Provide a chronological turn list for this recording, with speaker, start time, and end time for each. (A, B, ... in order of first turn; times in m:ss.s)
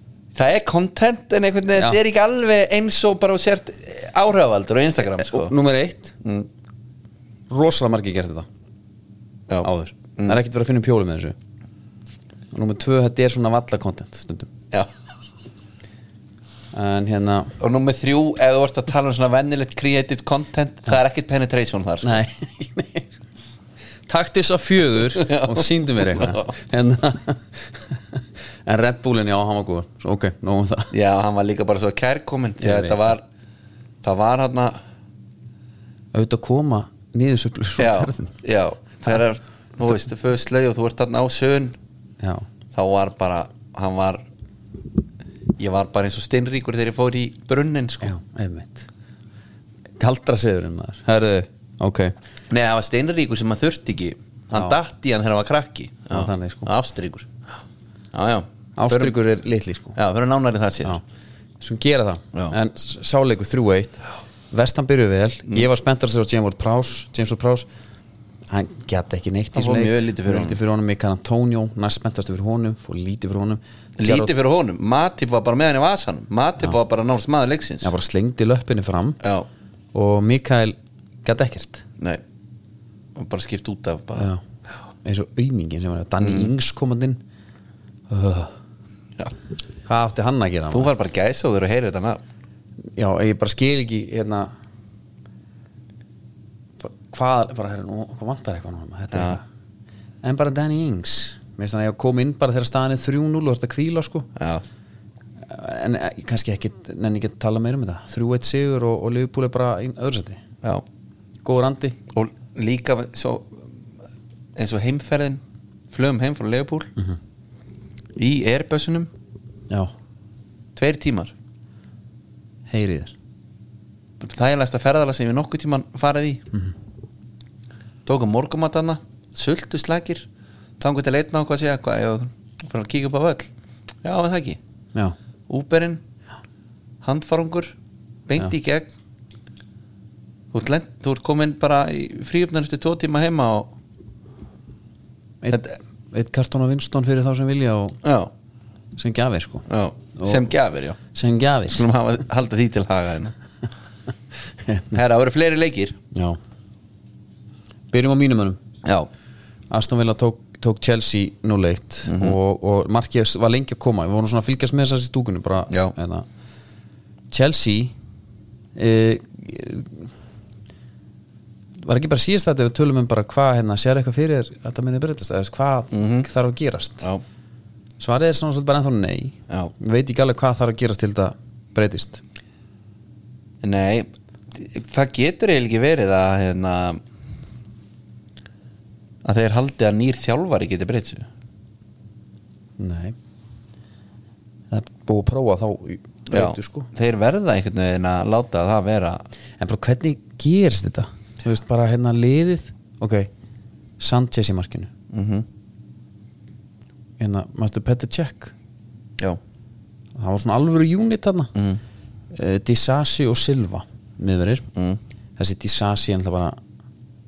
0:00.4-0:05.5 A
0:05.2-0:06.2 B
0:06.2-0:06.5 A
0:07.5-0:08.5 B
0:09.5-0:10.4 A
0:09.6-0:11.4 B
0:12.5-0:14.5 B
0:16.7-0:17.6 B
0:17.6-0:22.2 A
0:22.0-0:23.1 B
0:24.1-0:30.9 B
0:25.2-0:26.5 A
0:30.9-0:33.2 A
0:32.6-0:33.2 B
0:34.0-0:34.8 A
0:36.1-0:38.3 B
0:37.8-0:41.8 A
0:42.2-0:42.5 B
0:42.7-0:44.2 A
0:45.6-0:48.1 A
0:48.0-0:48.9 B
0:50.0-0:52.2 B
0:52.5-0:57.3 A
0:56.1-0:56.7 B
0:58.1-0:59.2 A
0:58.8-1:00.0 B
1:00.0-1:01.0 A
1:01.6-1:04.0 B
1:04.5-1:07.7 B
1:08.5-1:14.3 B
1:09.5-1:10.6 A
1:14.0-1:17.9 A
1:17.8-1:19.2 B
1:19.2-1:19.5 A
1:19.9-1:21.8 B
1:23.2-1:24.3 A
1:24.2-1:24.4 B
1:25.0-1:27.2 B
1:26.2-1:26.5 A
1:28.1-1:28.5 B
1:29.9-1:30.9 B
1:30.7-1:32.2 A
1:33.0-1:34.5 B
1:36.8-1:39.4 B
1:39.1-1:39.4 A
1:40.2-1:44.3 B
1:44.4-1:44.6 A
1:45.5-1:50.4 B
1:51.4-1:52.0 B
1:52.1-1:53.7 A
1:54.6-1:56.9 A
1:58.2-1:59.1 A
2:00.8-2:01.3 A
2:02.7-2:03.1 B
2:04.2-2:06.5 A
2:08.0-2:10.3 A
2:10.8-2:13.5 A
2:14.0-2:14.6 A
2:15.5-2:16.0 A
2:17.0-2:17.7 A
2:18.3-2:18.9 A
2:20.5-2:23.7 A
2:25.4-2:28.0 B
2:28.0-2:28.3 A
2:29.0-2:30.5 B
2:29.7-2:31.0 A
2:31.1-2:31.8 B
2:31.7-2:33.3 A
2:34.6-2:35.0 B
2:34.9-2:36.0 A
2:36.1-2:36.4 B
2:37.9-2:38.6 B
2:39.7-2:46.3 B
2:42.1-2:42.4 A
2:47.3-2:47.9 B
2:48.8-2:50.1 B
2:51.8-2:57.1 B
2:55.9-2:56.3 A
2:58.0-3:02.2 B
3:03.6-3:07.0 A
3:09.2-3:11.3 A
3:12.8-3:13.2 B
3:14.7-3:16.9 B
3:16.3-3:19.2 A
3:19.6-3:23.3 B
3:24.0-3:24.9 B
3:25.1-3:25.5 A
3:27.2-3:28.5 B
3:30.2-3:31.5 B
3:31.6-3:31.8 A
3:32.3-3:34.6 B
3:34.8-3:35.0 A
3:35.4-3:36.6 B